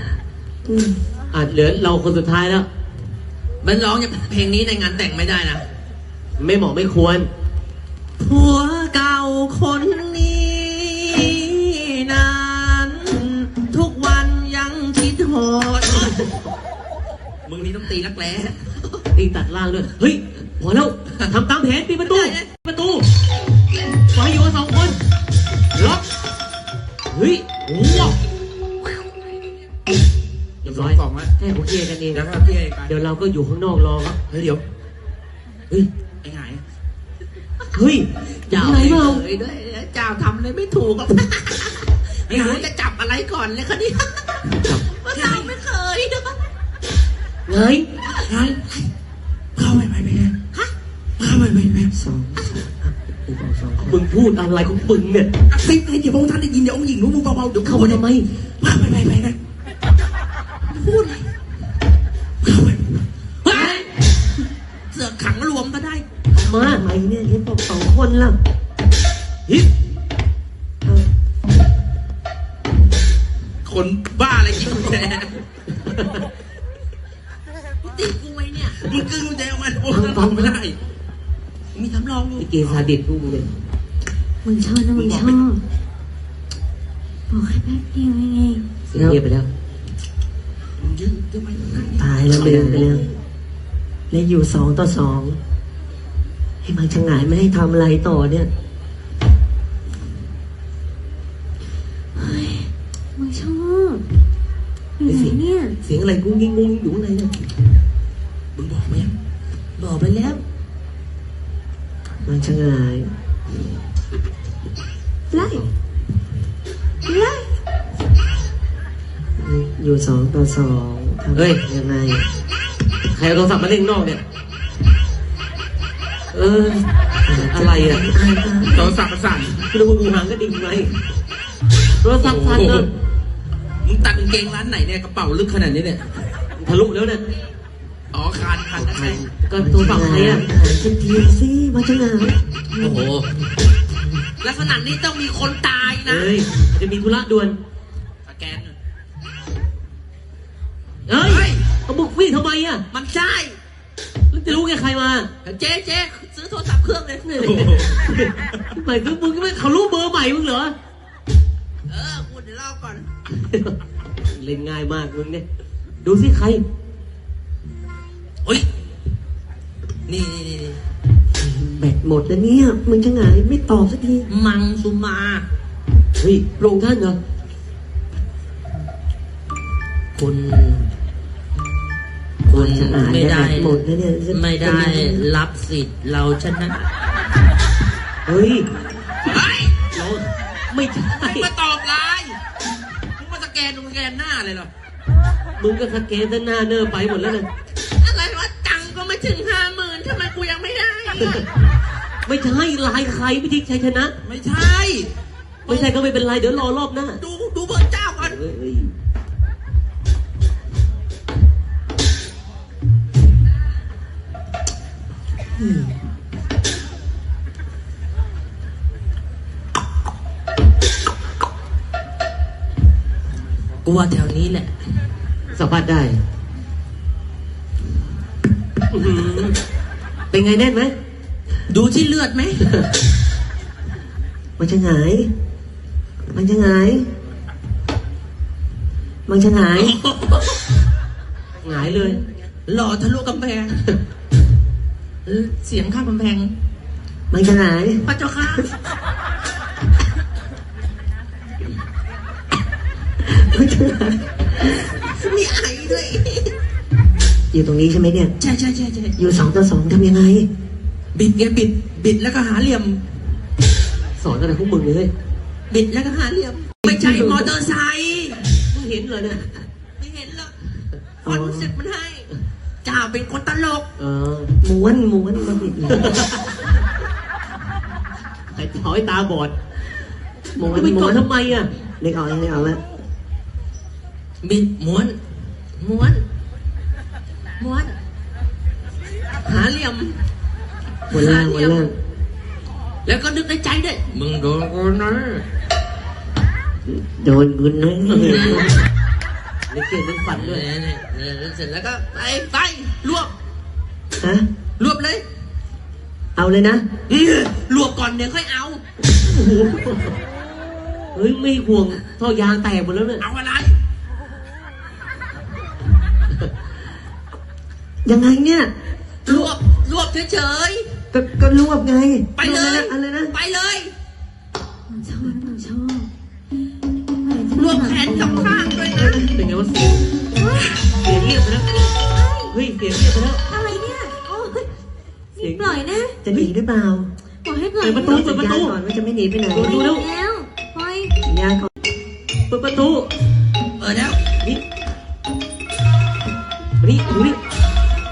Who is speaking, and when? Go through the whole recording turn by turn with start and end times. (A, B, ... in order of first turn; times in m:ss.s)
0:00.7-0:01.0 A
0:01.3-0:02.7 B
0:03.6-0:05.6 C
0:06.4-0:07.3 B
0:08.2-0:16.2 C
0:17.5-0:19.0 C
0:19.1-0:23.0 B
0:22.0-0:22.5 C
0:24.1-0:25.0 B
0:27.1-0:27.5 B
0:27.7-0:28.2 C
0:30.6-0:31.3 D
0:30.6-0:32.3 B
0:32.1-0:32.9 D
0:32.9-0:34.3 B
0:34.3-0:34.6 D
0:36.2-0:36.6 D
0:37.7-0:39.2 B
0:38.5-0:46.4 C
0:42.3-0:42.7 D
0:45.1-0:45.5 D
0:47.5-0:47.9 B
0:48.2-0:48.6 D
0:49.6-0:50.4 D
0:51.2-0:51.9 D
0:51.9-0:54.0 A
0:53.8-0:55.3 B
0:55.5-0:58.0 D
0:57.6-0:58.3 B
0:58.6-0:59.4 D
1:00.7-1:01.3 C
1:02.4-1:03.0 D
1:03.5-1:03.9 C
1:03.5-1:03.9 B
1:04.9-1:06.0 C
1:06.3-1:06.8 B
1:06.4-1:08.4 A
1:13.6-1:15.4 D
1:15.7-1:16.2 B
1:17.8-1:18.9 C
1:18.8-1:20.8 D
1:19.9-1:20.6 B
1:21.7-1:22.8 C
1:22.4-1:23.5 B
1:24.4-1:25.6 E
1:25.0-1:25.3 C
1:27.3-1:28.7 E
1:28.9-1:29.5 B
1:28.9-1:29.2 A
1:30.8-1:32.1 D
1:31.9-1:33.1 A
1:32.3-1:33.0 B
1:34.1-1:35.4 A
1:36.6-1:38.5 A
1:42.2-1:44.0 E
1:45.0-1:45.8 E
1:45.1-1:47.5 B
1:48.6-1:49.2 D
1:49.8-1:50.4 C
1:52.2-1:53.1 A
1:55.3-1:55.6 A
1:55.4-1:55.7 B
1:57.1-1:57.5 E
1:59.4-2:02.3 A
2:01.4-2:01.6 B
2:03.1-2:04.2 B
2:06.3-2:08.1 B
2:07.3-2:09.0 A
2:08.7-2:09.6 D
2:09.7-2:11.0 B
2:12.0-2:12.9 B
2:12.2-2:12.9 D
2:13.8-2:16.4 D
2:16.6-2:17.2 B
2:18.1-2:19.2 D
2:18.8-2:20.5 B
2:19.6-2:22.4 A
2:22.8-2:23.3 C
2:24.4-2:26.4 C
2:26.0-2:27.6 B
2:28.3-2:28.7 D
2:31.1-2:32.8 B
2:31.2-2:31.6 C
2:32.9-2:33.6 C
2:34.3-2:35.3 B
2:35.4-2:37.6 C
2:37.3-2:40.8 B
2:37.4-2:37.9 D
2:41.9-2:43.1 C
2:43.3-2:45.4 B
2:46.0-2:46.6 B
2:50.1-2:50.8 C
2:51.4-2:54.3 A
2:54.3-2:55.5 C
2:56.2-2:57.2 B
3:00.2-3:00.9 C
3:02.5-3:06.8 C
3:02.5-3:05.2 A
3:08.3-3:08.7 B
3:09.2-3:09.8 D
3:09.9-3:11.5 B
3:11.1-3:12.4 D
3:13.2-3:14.7 D
3:15.6-3:17.5 B
3:17.9-3:21.5 C
3:21.2-3:21.5 B
3:22.3-3:24.1 B
3:24.2-3:25.1 D
3:25.7-3:27.2 B
3:27.2-3:28.4 C
3:28.2-3:28.9 B
3:35.6-3:36.0 A
3:43.8-3:44.7 C
3:45.6-3:46.2 B
3:48.9-3:49.6 B
3:50.3-3:51.0 B
3:51.7-3:52.7 C
3:54.6-3:55.3 A
3:56.3-3:57.1 A
3:59.3-4:00.0 A
3:59.8-4:00.6 C
4:01.6-4:02.2 B
4:01.8-4:04.0 C
4:05.3-4:06.5 C
4:07.3-4:08.0 A
4:08.0-4:08.7 C
4:13.2-4:14.8 A
4:14.9-4:16.5 C
4:17.5-4:18.3 A
4:18.4-4:19.2 C
4:19.2-4:20.5 A
4:21.2-4:23.0 C
4:24.2-4:25.1 B
4:25.7-4:28.4 C
4:26.8-4:27.5 A
4:28.7-4:29.5 B
4:30.0-4:30.6 C
4:31.2-4:32.3 C
4:31.2-4:31.7 A
4:32.8-4:33.9 C
4:34.0-4:34.5 B
4:34.6-4:36.3 A
4:35.9-4:36.6 B
4:38.5-4:39.5 B
4:40.6-4:41.3 A
4:40.6-4:41.7 B
4:42.0-4:42.8 A
4:44.4-4:45.2 C
4:45.8-4:46.2 C
4:47.6-4:48.0 C
4:49.4-4:50.2 C
4:51.1-4:51.9 C
4:51.1-4:51.9 A
4:53.1-4:55.4 C
4:56.9-4:58.8 A
4:58.1-4:58.7 B
4:58.1-4:58.7 C
4:59.7-5:00.6 B
5:00.3-5:03.3 C
5:04.2-5:04.5 A
5:04.8-5:05.2 C
5:06.4-5:06.8 A
5:07.1-5:08.8 C
5:09.2-5:10.1 B
5:11.1-5:13.2 B
5:13.2-5:13.8 C
5:18.0-5:18.7 A
5:19.3-5:19.5 A
5:19.3-5:21.0 C
5:21.1-5:23.4 A
5:22.4-5:23.9 C
5:24.9-5:26.1 E
5:27.2-5:28.6 E
5:27.6-5:29.2 C
5:29.0-5:29.3 A
5:29.2-5:30.1 B
5:30.3-5:30.8 E
5:30.8-5:31.9 B
5:32.0-5:32.6 E
5:32.5-5:33.4 B
5:33.4-5:34.7 E
5:35.4-5:36.2 E
5:35.4-5:36.5 B
5:36.2-5:37.1 A
5:37.4-5:38.2 E
5:37.8-5:38.8 B
5:38.0-5:39.8 A
5:39.5-5:40.1 B
5:39.6-5:41.2 E
5:41.2-5:41.7 A
5:42.5-5:43.1 B
5:43.8-5:44.2 C
5:46.8-5:47.4 B